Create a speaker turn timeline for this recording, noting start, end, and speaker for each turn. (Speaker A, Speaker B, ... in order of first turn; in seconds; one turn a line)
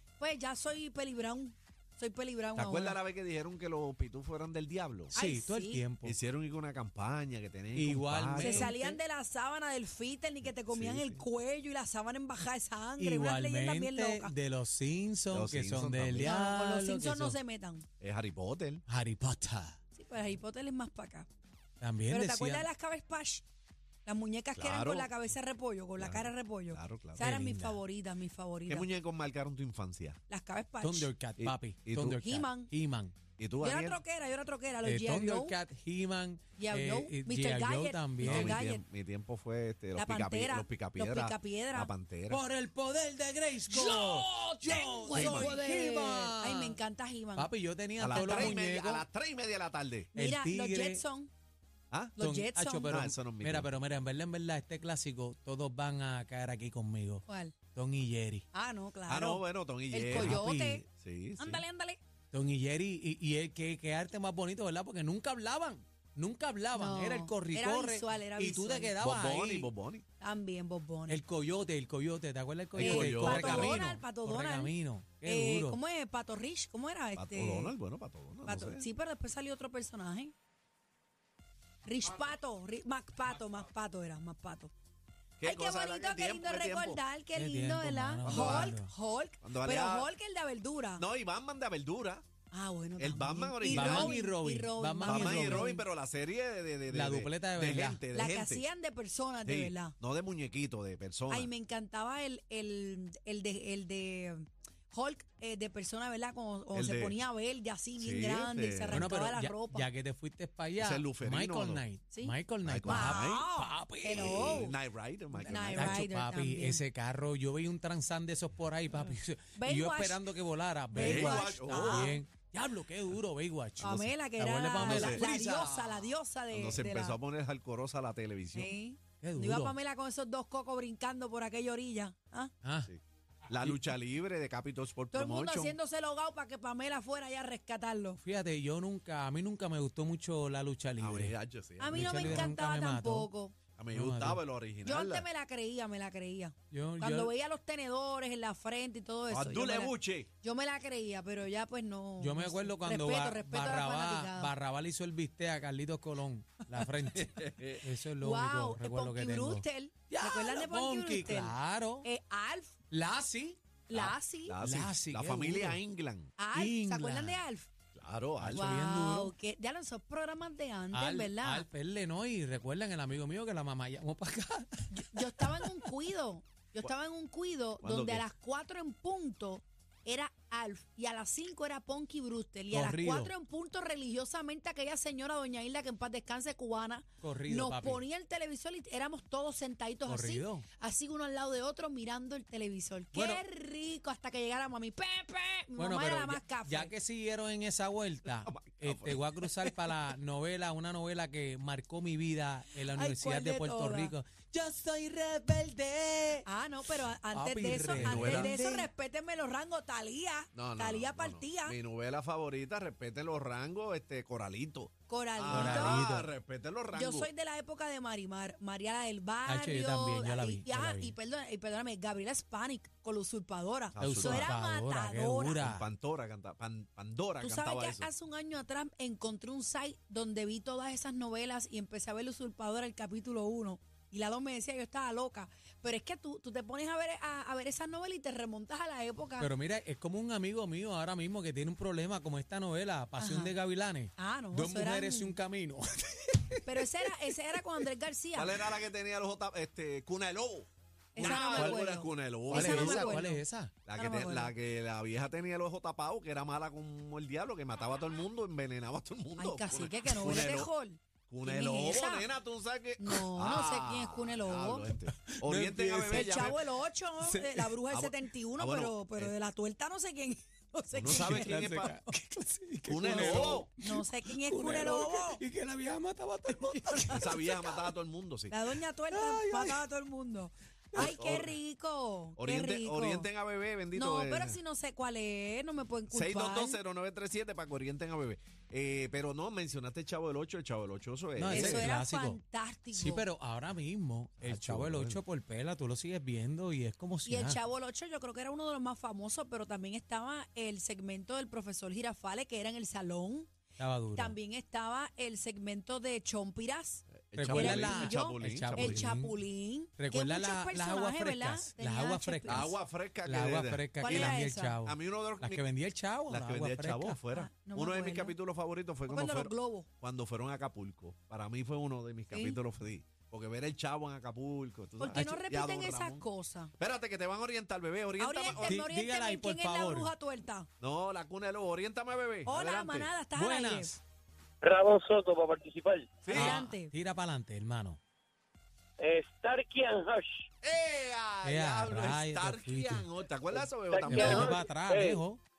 Speaker A: 0.2-3.0
Speaker B: 2.5-5.1
Speaker A: 5.1-5.8
Speaker C: 5.1-6.2
Speaker B: 6.0-8.7
Speaker C: 7.7-9.0
Speaker A: 8.4-14.3
Speaker B: 10.5-11.2
Speaker C: 13.0-17.4
Speaker B: 15.3-16.3
Speaker A: 16.2-17.9
Speaker B: 18.0-18.8
Speaker C: 18.9-19.8
Speaker A: 19.9-21.3
Speaker C: 21.8-22.7
Speaker A: 22.1-23.4
Speaker A: 24.1-28.9
Speaker B: 24.6-25.1
Speaker B: 26.0-27.3
Speaker C: 27.2-27.8
Speaker B: 28.7-30.2
Speaker A: 30.3-31.1
Speaker C: 30.8-33.1
Speaker B: 31.4-32.1
Speaker A: 32.1-32.7
Speaker B: 33.4-34.0
Speaker A: 33.6-35.5
Speaker C: 34.8-38.6
Speaker A: 36.6-38.8
Speaker B: 38.2-42.4
Speaker A: 39.9-41.9
Speaker C: 42.3-46.8
Speaker A: 43.6-44.3
Speaker B: 44.6-45.6
Speaker A: 45.0-47.5
Speaker C: 47.4-49.0
Speaker B: 48.0-50.1
Speaker A: 48.1-48.5
Speaker C: 50.1-51.0
Speaker A: 50.1-51.3
Speaker B: 51.9-52.1
Speaker A: 52.2-52.9
Speaker C: 52.2-58.4
Speaker B: 52.9-53.7
Speaker A: 57.3-57.6
Speaker A: 58.5-60.9
Speaker B: 59.1-60.4
Speaker C: 60.1-60.8
Speaker B: 60.9-61.6
Speaker A: 61.4-62.0
Speaker C: 62.3-69.7
Speaker A: 66.7-68.9
Speaker B: 69.0-70.0
Speaker A: 70.2-71.2
Speaker C: 71.1-75.8
Speaker B: 72.8-73.8
Speaker A: 72.8-74.7
Speaker A: 75.2-77.7
Speaker B: 77.2-78.9
Speaker A: 78.4-80.3
Speaker A: 81.8-84.7
Speaker B: 85.4-87.0
Speaker A: 85.4-91.0
Speaker C: 87.3-88.9
Speaker B: 88.2-88.8
Speaker B: 89.4-90.1
Speaker B: 91.0-92.2
Speaker A: 92.5-95.8
Speaker B: 93.0-94.2
Speaker C: 93.7-95.7
Speaker B: 95.0-98.6
Speaker C: 96.9-98.0
Speaker A: 98.1-99.9
Speaker B: 99.4-101.5
Speaker A: 101.3-109.9
Speaker B: 106.7-107.2
Speaker B: 108.0-109.1
Speaker C: 108.9-114.7
Speaker B: 110.8-111.8
Speaker A: 112.1-114.8
Speaker B: 112.6-113.4
Speaker B: 114.1-116.0
Speaker C: 115.3-126.1
Speaker A: 115.4-116.8
Speaker A: 119.6-120.2
Speaker A: 120.9-122.2
Speaker B: 121.0-122.2
Speaker A: 123.8-127.2
Speaker B: 124.8-125.2
Speaker B: 126.5-128.7
Speaker A: 128.5-132.5
Speaker C: 129.2-129.7
Speaker C: 132.6-132.9
Speaker B: 132.9-135.8
Speaker A: 135.1-138.2
Speaker C: 138.2-141.3
Speaker B: 141.0-142.5
Speaker A: 141.8-143.5
Speaker C: 141.9-143.3
Speaker B: 143.8-145.2
Speaker C: 143.9-144.4
Speaker A: 144.8-154.5
Speaker C: 146.7-147.3
Speaker B: 149.3-150.3
Speaker C: 152.2-162.1
Speaker B: 157.2-157.8
Speaker A: 158.2-162.7
Speaker C: 162.9-165.8
Speaker A: 163.9-164.6
Speaker B: 164.5-166.3
Speaker A: 166.4-167.7
Speaker C: 166.5-167.4
Speaker B: 167.9-168.7
Speaker C: 168.4-169.3
Speaker A: 168.5-171.7
Speaker C: 170.9-175.9
Speaker A: 174.9-196.9
Speaker B: 177.8-178.2
Speaker C: 182.7-183.3
Speaker C: 187.2-188.0
Speaker C: 190.1-190.6
Speaker C: 193.1-193.4
Speaker C: 195.8-206.4
Speaker B: 198.4-199.9
Speaker A: 202.9-204.1
Speaker A: 206.4-211.8
Speaker C: 207.3-208.9
Speaker B: 207.8-208.6
Speaker B: 210.5-217.3
Speaker A: 215.1-216.1
Speaker C: 215.5-216.3
Speaker A: 216.9-225.6
Speaker C: 219.4-221.1
Speaker B: 223.9-224.5
Speaker C: 224.0-225.8
Speaker B: 225.6-228.1
Speaker A: 227.4-239.5
Speaker C: 239.4-247.8
Speaker A: 243.2-243.5
Speaker A: 244.2-245.3
Speaker A: 246.7-248.6
Speaker B: 248.3-253.2
Speaker A: 251.1-253.4
Speaker C: 251.4-251.8
Speaker C: 252.5-253.7
Speaker B: 253.8-260.7
Speaker A: 253.9-254.5
Speaker A: 259.4-262.3
Speaker B: 261.3-266.6
Speaker A: 263.0-264.9
Speaker C: 265.2-266.6
Speaker A: 266.1-271.6
Speaker C: 267.2-267.7
Speaker B: 267.9-269.3
Speaker B: 270.9-271.9
Speaker C: 271.0-277.8
Speaker B: 272.9-273.7
Speaker A: 273.8-275.4
Speaker A: 276.8-277.2
Speaker B: 277.1-278.5
Speaker A: 278.5-283.3
Speaker C: 279.1-279.8
Speaker B: 280.9-281.5
Speaker B: 282.4-284.6
Speaker A: 283.9-286.8
Speaker B: 286.1-291.9
Speaker C: 291.4-292.4
Speaker A: 291.5-293.3
Speaker C: 292.9-297.6
Speaker B: 294.4-295.2
Speaker A: 297.2-303.5
Speaker C: 303.8-304.3
Speaker A: 304.1-312.7
Speaker B: 307.1-309.1
Speaker C: 307.3-309.4
Speaker C: 310.0-312.7
Speaker B: 312.4-315.6
Speaker C: 313.2-317.2
Speaker A: 314.0-314.8
Speaker B: 316.3-326.2
Speaker A: 317.3-318.4
Speaker A: 319.1-319.9
Speaker A: 322.3-322.6
Speaker A: 325.0-326.7
Speaker C: 325.1-325.4
Speaker B: 326.8-328.8
Speaker A: 328.2-330.7
Speaker C: 328.5-330.1
Speaker B: 330.8-333.1
Speaker A: 332.4-333.9
Speaker C: 333.4-334.0
Speaker D: 334.6-336.3
Speaker B: 336.2-336.6
Speaker C: 336.3-338.0
Speaker A: 336.3-336.9
Speaker D: 339.0-340.4
Speaker B: 340.6-344.6
Speaker C: 341.4-343.1
Speaker D: 343.5-345.2
Speaker C: 344.1-345.4